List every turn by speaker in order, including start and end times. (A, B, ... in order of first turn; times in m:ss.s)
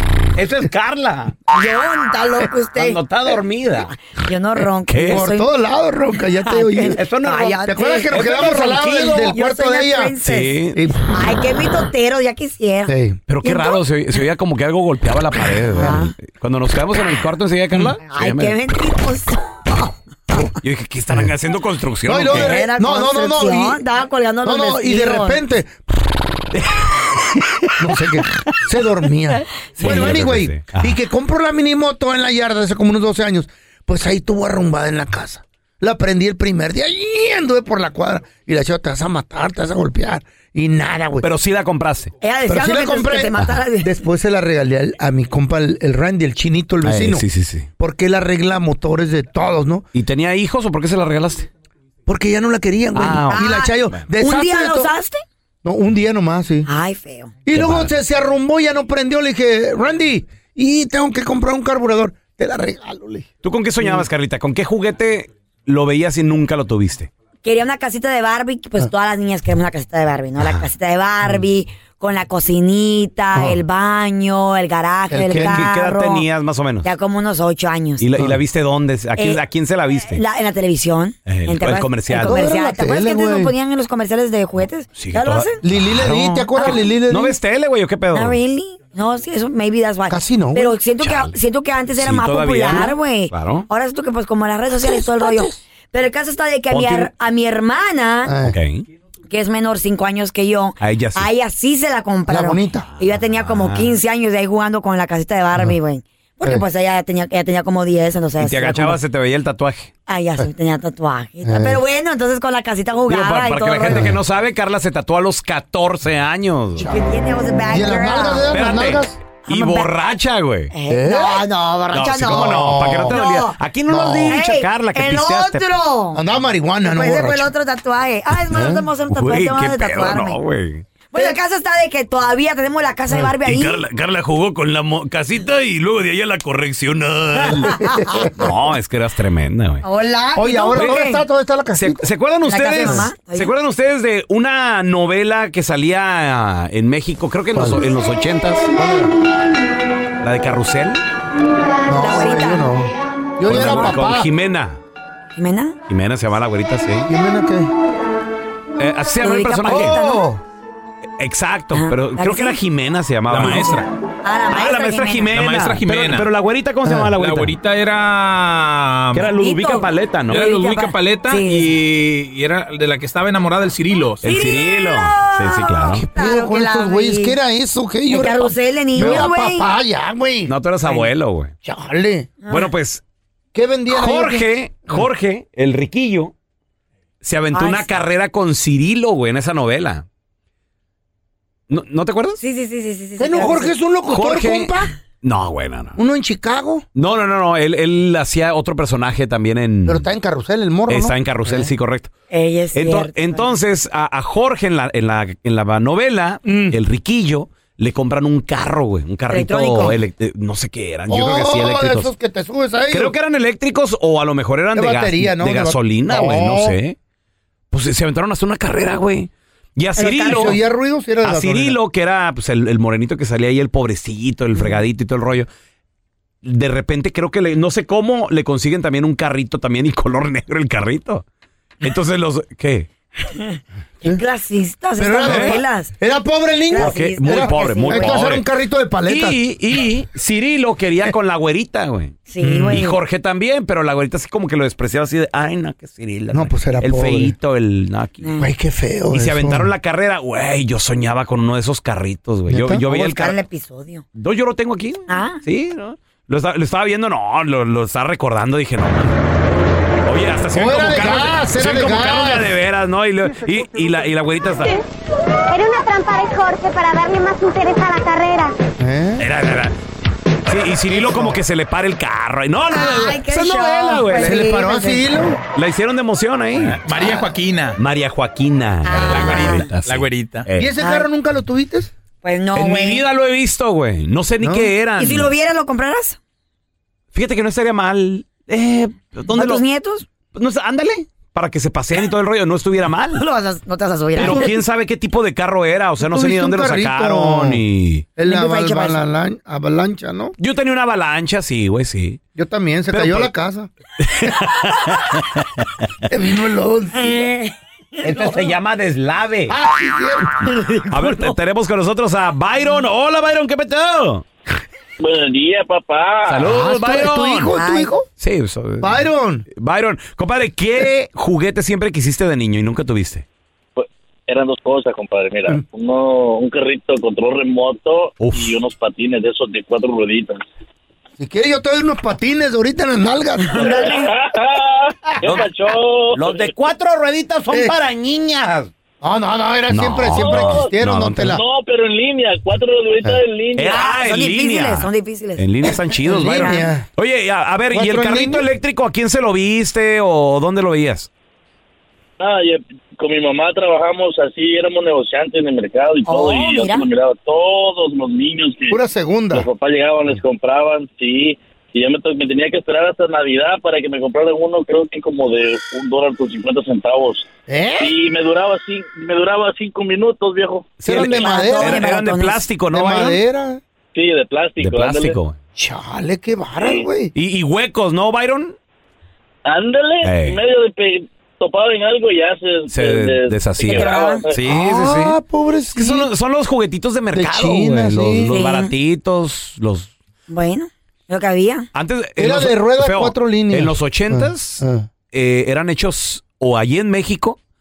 0:00.4-0:01.4 A
0:01.5-0:03.0 B
0:02.8-0:03.9 A
0:03.9-0:05.5 B
0:04.9-0:05.2 A
0:05.1-0:07.0 C
0:06.5-0:13.8 B
0:07.0-0:09.3 A
0:07.7-0:10.2 C
0:10.2-0:10.8 A
0:10.8-0:11.2 C
0:12.9-0:13.2 C
0:13.3-0:18.6 A
0:15.7-0:16.1 B
0:18.1-0:20.4 B
0:20.6-0:22.6 A
0:22.1-0:23.8 C
0:22.3-0:25.4 B
0:24.4-0:25.7 C
0:26.5-0:27.7 A
0:27.8-0:41.3 C
0:29.8-0:31.0 A
0:41.2-0:42.1 A
0:42.2-0:43.9 B
0:42.5-0:47.2 C
0:46.8-0:47.7 A
0:47.8-0:49.9 C
0:49.9-0:51.5 A
0:52.1-0:54.9 C
0:53.0-0:54.0 A
0:53.3-0:55.2 B
0:55.6-0:56.7 C
0:56.7-0:57.3 B
0:57.5-1:03.3 C
0:57.5-0:57.9 A
1:03.4-1:07.1 A
1:07.4-1:16.2 B
1:13.3-1:13.6 C
1:15.1-1:15.6 C
1:15.4-1:16.9 A
1:16.8-1:18.0 B
1:18.0-1:20.2 A
1:20.1-1:25.6 B
1:21.3-1:22.4 A
1:22.1-1:23.5 C
1:25.0-1:28.4 A
1:25.6-1:27.4 C
1:26.6-1:26.8 B
1:28.1-1:38.3 B
1:30.1-1:30.8 C
1:31.0-1:31.3 A
1:32.0-1:33.7 A
1:34.8-1:35.6 C
1:36.7-1:37.1 A
1:38.2-1:38.6 C
1:38.4-1:38.8 A
1:39.3-1:49.0 B
1:40.8-1:41.3 A
1:42.3-1:42.9 C
1:43.0-1:44.0 A
1:48.4-1:49.9 A
1:50.1-1:54.1 B
1:51.4-1:51.8 C
1:53.1-1:56.9 A
1:56.8-1:58.5 B
1:57.7-1:59.2 C
1:58.5-2:00.7 A
1:59.5-1:59.9 B
2:00.7-2:03.6 B
2:00.9-2:01.5 C
2:01.9-2:05.7 A
2:02.2-2:03.2 C
2:03.9-2:04.4 C
2:04.3-2:06.2 B
2:06.1-2:07.5 C
2:06.8-2:10.4 B
2:08.5-2:08.9 C
2:09.1-2:10.9 A
2:11.1-2:13.8 B
2:13.4-2:17.8 A
2:17.4-2:18.3 B
2:17.8-2:18.3 C
2:18.3-2:19.8 A
2:19.8-2:21.2 B
2:20.4-2:22.0 C
2:21.8-2:28.7 A
2:22.4-2:23.5 B
2:22.8-2:23.1 C
2:27.6-2:27.8 C
2:28.8-2:29.1 C
2:30.2-2:31.0 A
2:31.9-2:34.3 C
2:31.9-2:32.7 B
2:33.5-2:34.8 A
2:35.4-2:35.8 B
2:35.9-2:37.1 A
2:37.1-2:37.7 C
2:38.8-2:40.0 A
2:39.2-2:40.2 B
2:39.7-2:40.4 C
2:41.2-2:43.8 A
2:41.7-2:42.6 B
2:43.3-2:43.9 D
2:44.2-2:45.4 B
2:44.5-2:47.6 A
2:45.3-2:46.3 D
2:46.8-2:47.1 C
2:47.2-2:49.3 D
2:49.1-2:50.6 A
2:49.3-2:51.7 B
2:50.3-2:54.3 D
2:54.2-2:56.1 A
2:54.2-2:57.4 B
2:56.1-3:01.0 C
2:58.1-2:59.7 B
2:59.0-2:59.3 A
3:00.5-3:01.5 A
3:01.6-3:02.3 C
3:02.4-3:02.7 B
3:02.5-3:03.0 A
3:03.5-3:05.1 C
3:03.9-3:06.3 A
3:07.2-3:10.0 A
3:07.5-3:07.9 B
3:11.7-3:12.4 A
3:12.4-3:13.8 B
3:13.2-3:14.9 C
3:14.1-3:16.0 A
3:16.0-3:16.8 C
3:17.0-3:20.1 A
3:19.9-3:21.7 C
3:20.9-3:22.1 A
3:22.3-3:23.5 B
3:22.7-3:32.1 A
3:26.4-3:26.8 C
3:29.3-3:30.0 B
3:31.1-3:33.1 C
3:32.9-3:37.0 A
3:34.8-3:36.8 C
3:37.7-3:40.6 A
3:40.0-3:40.6 B
3:40.2-3:41.8 C
3:41.2-3:45.5 A
3:46.4-3:51.2 A
3:51.8-3:52.9 A
3:53.2-3:55.9 B
3:55.0-3:59.4 C
3:55.2-3:55.6 A
3:56.7-3:58.3 B
3:56.8-3:58.4 A
3:59.1-4:08.3 A
4:02.3-4:03.0 B
4:02.4-4:02.8 C
4:06.3-4:07.3 C
4:08.4-4:09.7 C
4:09.1-4:13.4 A
4:12.5-4:12.8 C
4:12.9-4:14.0 B
4:14.2-4:19.2 A
4:15.1-4:15.4 B
4:20.0-4:24.8 A
4:20.5-4:22.5 C
4:23.4-4:24.0 C
4:25.5-4:28.6 E
4:28.8-4:29.3 C
4:29.2-4:29.8 A
4:30.5-4:34.4 A
4:30.9-4:31.4 C
4:32.7-4:35.1 B
4:34.1-4:35.4 C
4:35.6-4:36.8 A
4:36.8-4:37.8 D
4:37.0-4:37.2 C
4:37.8-4:40.7 A
4:38.9-4:39.7 B
4:39.3-4:40.5 D
4:40.6-4:41.9 C
4:40.8-4:41.1 B
4:42.2-4:43.0 B
4:42.6-4:45.3 A
4:44.4-4:44.7 C
4:45.0-4:46.2 B
4:47.1-4:49.6 A
4:49.3-4:50.1 B
4:50.3-4:53.2 A
4:53.2-4:54.5 B
4:54.2-4:58.1 A
4:54.2-4:54.5 C
4:56.0-4:57.6 C
4:58.2-5:00.4 C
4:58.2-4:59.0 B
5:00.4-5:02.2 A
5:02.4-5:03.7 C
5:02.9-5:03.3 A
5:04.0-5:05.7 A
5:06.1-5:07.3 C
5:07.0-5:07.5 B
5:08.0-5:09.5 A
5:09.5-5:11.3 C
5:10.9-5:14.2 A
5:15.0-5:16.5 F
5:16.3-5:17.5 A
5:16.4-5:18.1 C
5:17.5-5:17.9 B
5:18.2-5:19.0 A
5:18.8-5:19.4 C
5:19.5-5:23.2 A
5:23.8-5:30.4 F
5:28.2-5:28.6 A
5:31.2-5:34.0 C
5:33.5-5:34.1 B
5:33.8-5:36.5 F
5:35.2-5:35.5 A
5:36.1-5:38.7 A
5:39.0-5:41.4 C
5:39.7-5:41.4 A
5:40.2-5:40.8 F
5:41.3-5:43.8 F
5:43.6-5:51.1 A
5:43.7-5:46.6 B
5:46.0-5:46.9 C
5:47.7-5:48.5 C
5:52.2-5:58.8 F
5:56.1-5:56.9 B
5:58.7-5:59.5 C
5:59.3-6:07.3 F
6:07.5-6:07.9 C
6:07.8-6:10.8 F
6:10.8-6:13.2 A
6:10.8-6:11.8 C
6:10.9-6:12.4 B
6:12.7-6:13.6 C
6:13.9-6:15.2 F
6:14.6-6:15.4 A
6:15.6-6:17.1 C
6:16.6-6:16.9 F
6:17.1-6:18.6 A
6:19.5-6:24.4 F
6:20.0-6:20.4 A
6:22.7-6:25.2 A
6:23.7-6:24.2 B
6:24.4-6:26.1 C
6:25.7-6:29.9 A
6:27.1-6:28.4 C
6:28.3-6:28.7 B
6:30.3-6:31.7 B
6:31.7-6:37.4 A
6:32.2-6:34.9 C